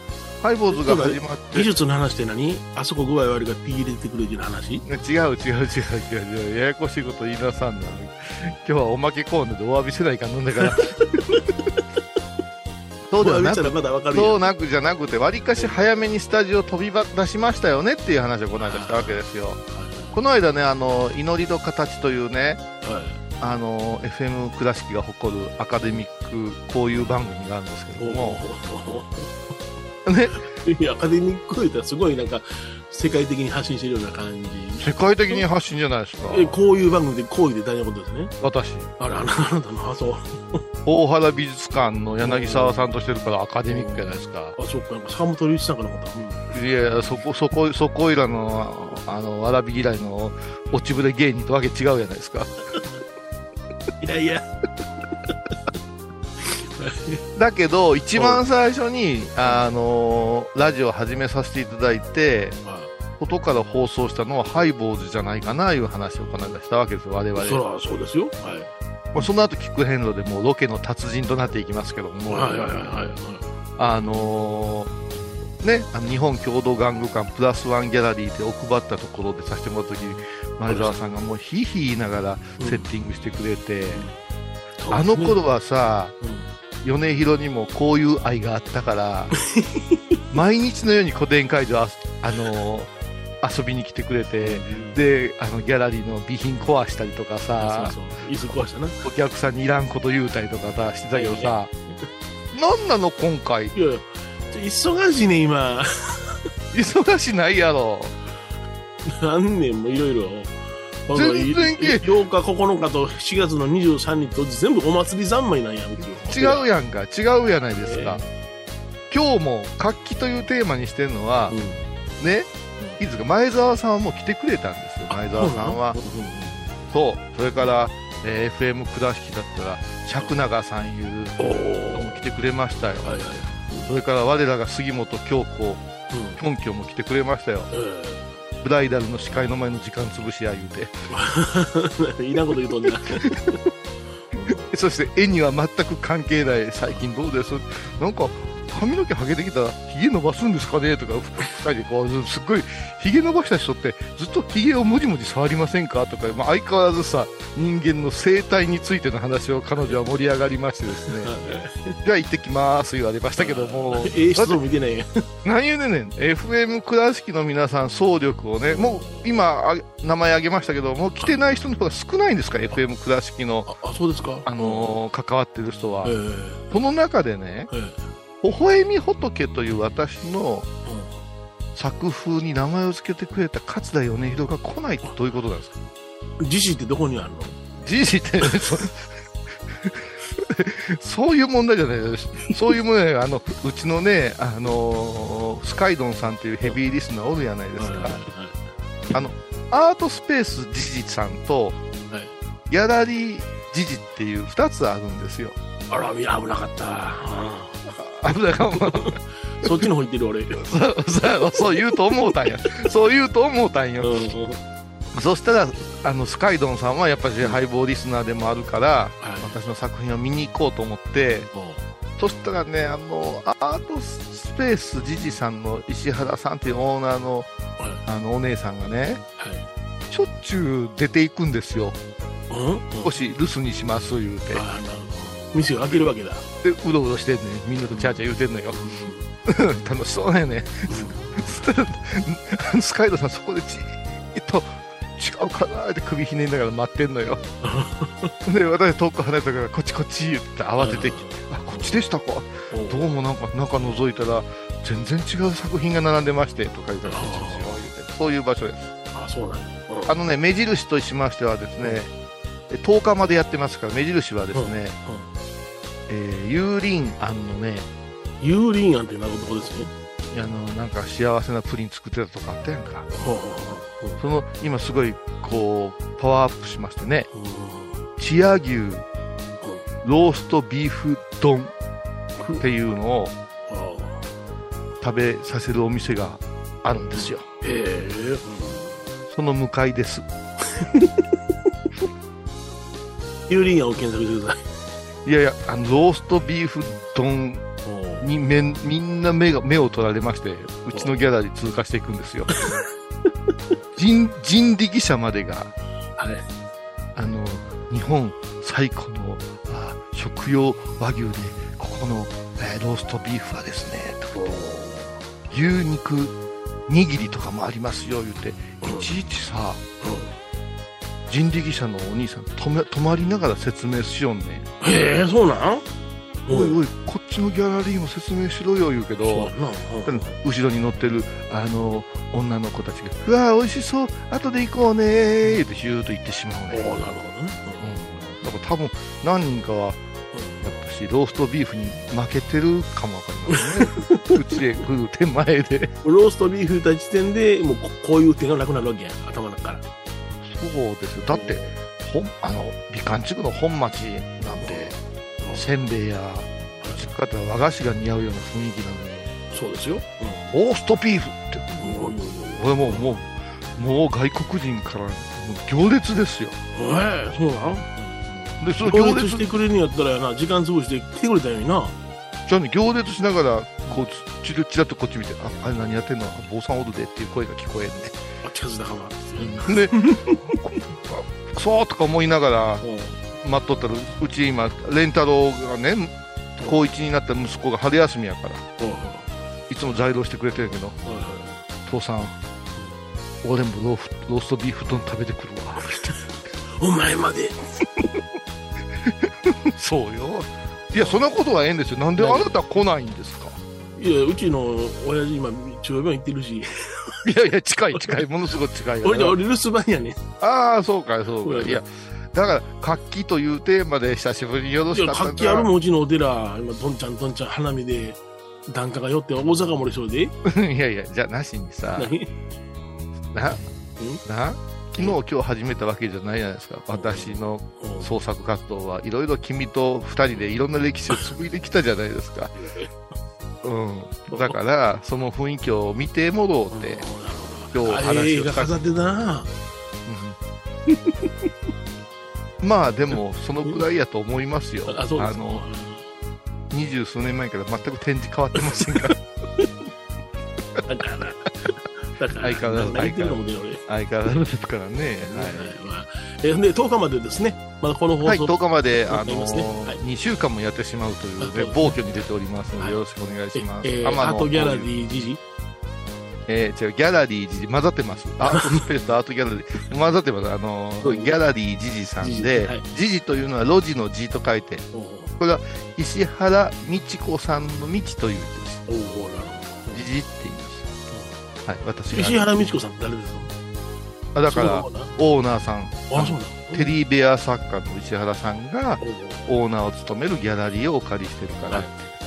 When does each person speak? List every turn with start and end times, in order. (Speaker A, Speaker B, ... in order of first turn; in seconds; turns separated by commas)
Speaker A: 0.4-1.7, Speaker B: 0.7-4.8, Speaker A: 4.8-11.4, Speaker B: 10.6-11.4, Speaker A: 13.1-19.6, Speaker B: 13.2-14.4, Speaker B: 18.6-20.2, Speaker A: 20.1-22.6, Speaker B: 22.8-23.2, Speaker A: 23.4-28.4, Speaker B: 28.0-29.4, Speaker A: 30.0-30.4, Speaker B: 30.4-35.4, Speaker A: 34.8-36.6, Speaker B: 36.3-38.3, Speaker A: 38.4-38.9, Speaker B: 39.0-40.6, Speaker A: 40.8-44.6, Speaker B: 42.2-42.8, Speaker B: 43.7-46.5, Speaker A: 46.5-52.5, Speaker B: 54.0-54.5, Speaker B: 55.2-55.5, Speaker B: 56.4-57.2, Speaker A: 57.4-62.6, Speaker B: 58.1-58.4, Speaker B: 62.6-62.9, Speaker A: 63.2-67.6, Speaker B: 67.3-68.7, Speaker A: 69.1-72.7, Speaker B: 72.3-73.5, Speaker A: 73.8-74.9, Speaker A: 75.6-84.1, Speaker B: 80.7-80.9, Speaker B: 82.6-82.9, Speaker B: 84.8-85.4, Speaker A: 84.9-86.1, Speaker B: 86.2-86.5, Speaker A: 86.8-89.3, Speaker B: 89.4-90.2, Speaker A: 90.3-97.9, Speaker B: 94.4-95.0, Speaker B: 97.6-99.0, Speaker A: 99.0-101.7, Speaker B: 101.1-102.0, Speaker A: 102.5-103.7, Speaker B: 103.7-106.3, Speaker A: 106.7-108.1, Speaker B: 109.0-110.5, Speaker B: 111.1-116.7, Speaker A: 111.1-112.1, Speaker A: 116.2-118.2, Speaker B: 117.8-118.2, Speaker A: 119.1-121.6, Speaker B: 121.5-121.9, Speaker A: 122.2-126.0, Speaker B: 125.1-126.8, Speaker A: 126.9-133.2, Speaker B: 131.4-132.2, Speaker B: 133.0-133.9, Speaker A: 133.8-135.8, Speaker B: 136.1-136.4, Speaker A: 136.4-137.7, Speaker B: 137.7-138.3, Speaker A: 138.6-140.9, Speaker B: 141.1-143.6, Speaker A: 143.2-143.5, Speaker B: 144.3-144.7, Speaker A: 144.4-161.3, Speaker B: 159.8-160.2, Speaker B: 161.1-162.0, Speaker A: 162.0-164.6, Speaker B: 163.4-165.3, Speaker A: 165.4-173.7, Speaker B: 168.7-169.3, Speaker B: 173.7-175.0, Speaker A: 174.4-176.2, Speaker B: 176.0-176.6, Speaker A: 176.7-177.7, Speaker B: 177.7-178.1, Speaker A: 178.4-180.7, Speaker B: 180.8-181.2, Speaker A: 181.7-185.8, Speaker B: 186.4-187.6, Speaker A: 187.8-189.1, Speaker A: 189.7-198.2, Speaker B: 197.8-198.7, Speaker A: 199.1-201.8, Speaker A: 202.7-205.6, Speaker B: 205.9-210.7, Speaker A: 208.0-209.9, Speaker A: 210.5-214.3, Speaker B: 214.0-214.6, Speaker A: 215.1-221.5, Speaker B: 219.2-219.5, Speaker B: 221.5-221.8, Speaker A: 222.2-227.5, Speaker A: 228.0-229.2, Speaker B: 229.4-229.7, Speaker A: 230.1-232.0, Speaker B: 232.5-233.2, Speaker A: 233.0-234.7, Speaker B: 234.5-236.4, Speaker A: 236.6-238.9, Speaker B: 237.9-238.2, Speaker B: 238.7-239.3, Speaker A: 239.4-247.4, Speaker B: 240.9-241.6, Speaker B: 247.6-248.3, Speaker A: 248.4-258.9, Speaker B: 250.8-252.0, Speaker B: 252.7-253.1, Speaker B: 257.0-257.9, Speaker B: 259.1-260.2, Speaker A: 260.1-262.1, Speaker A: 262.7-265.0, Speaker B: 264.5-265.3, Speaker A: 266.1-267.9, Speaker B: 268.4-269.9, Speaker A: 270.3-273.1, Speaker B: 273.1-274.2, Speaker A: 274.2-277.3, Speaker B: 277.3-278.1, Speaker A: 278.2-279.0, Speaker A: 280.0-281.7, Speaker A: 282.6-283.3, Speaker B: 283.7-284.3, Speaker A: 285.0-287.5, Speaker B: 287.1-289.0, Speaker A: 289.3-290.2, Speaker B: 290.7-291.2, Speaker B: 293.5-294.6, Speaker A: 295.2-297.7, Speaker B: 297.8-298.3, Speaker A: 298.2-302.6, Speaker A: 303.9-305.7, Speaker B: 306.2-306.4, Speaker A: 307.1-314.6, Speaker B: 314.3-315.1, Speaker A: 315.5-316.3, Speaker A: 316.9-319.8, Speaker B: 318.8-319.1, Speaker B: 320.0-320.3, Speaker A: 321.3-324.7, Speaker B: 324.8-325.8, Speaker B: 326.4-326.8, Speaker A: 326.5-329.5, Speaker B: 329.2-330.4, Speaker A: 330.1-336.9, Speaker B: 336.7-338.3, Speaker A: 337.8-340.0, Speaker B: 340.3-340.7, Speaker A: 340.6-345.9, Speaker B: 343.5-344.4, Speaker B: 346.0-349.8, Speaker A: 350.4-355.0, Speaker B: 351.3-351.7, Speaker B: 354.6-355.7, Speaker A: 355.5-359.3, Speaker B: 356.8-357.1, Speaker B: 359.5-360.5, Speaker A: 360.5-366.6, Speaker B: 361.8-363.1, Speaker B: 366.7-368.2, Speaker A: 368.3-369.4, Speaker B: 368.8-371.9, Speaker A: 372.4-378.2, Speaker B: 378.4-380.6, Speaker A: 379.4-382.8, Speaker B: 382.8-383.2, Speaker A: 383.4-388.6, Speaker B: 388.8-389.4, Speaker A: 389.7-391.0, Speaker B: 391.0-391.6, Speaker A: 391.8-392.4, Speaker A: 393.4-396.2, Speaker B: 396.8-398.1, Speaker A: 399.0-403.6, Speaker B: 402.2-402.5, Speaker B: 403.9-407.2, Speaker A: 407.2-409.4, Speaker B: 407.9-408.3, Speaker B: 409.0-410.2, Speaker A: 410.4-415.7, Speaker B: 411.4-411.8, Speaker B: 414.9-420.3, Speaker A: 420.4-422.1, Speaker B: 421.9-422.3, Speaker A: 423.3-423.6, Speaker A: 424.2-432.5, Speaker B: 426.9-428.1, Speaker B: 432.6-432.9, Speaker A: 433.6-437.1, Speaker B: 434.3-434.6, Speaker B: 436.7-439.5, Speaker A: 437.7-438.8, Speaker A: 440.1-440.4, Speaker B: 440.9-441.5, Speaker A: 442.6-445.6, Speaker B: 444.9-446.0, Speaker A: 446.7-449.2, Speaker B: 448.6-449.0, Speaker B: 450.9-453.8, Speaker A: 452.4-455.8, Speaker B: 455.2-460.0, Speaker A: 458.2-464.9, Speaker B: 461.4-461.9, Speaker B: 462.7-463.0, Speaker B: 463.5-465.4, Speaker A: 466.5-474.9, Speaker B: 468.4-468.8, Speaker B: 471.0-471.3, Speaker B: 472.2-472.8, Speaker B: 474.9-475.3, Speaker A: 475.4-478.9, Speaker B: 478.9-480.1, Speaker A: 479.9-480.9, Speaker A: 481.6-482.5, Speaker B: 482.1-483.5, Speaker A: 484.3-492.1, Speaker B: 484.5-485.1, Speaker B: 486.1-486.9, Speaker B: 489.0-489.5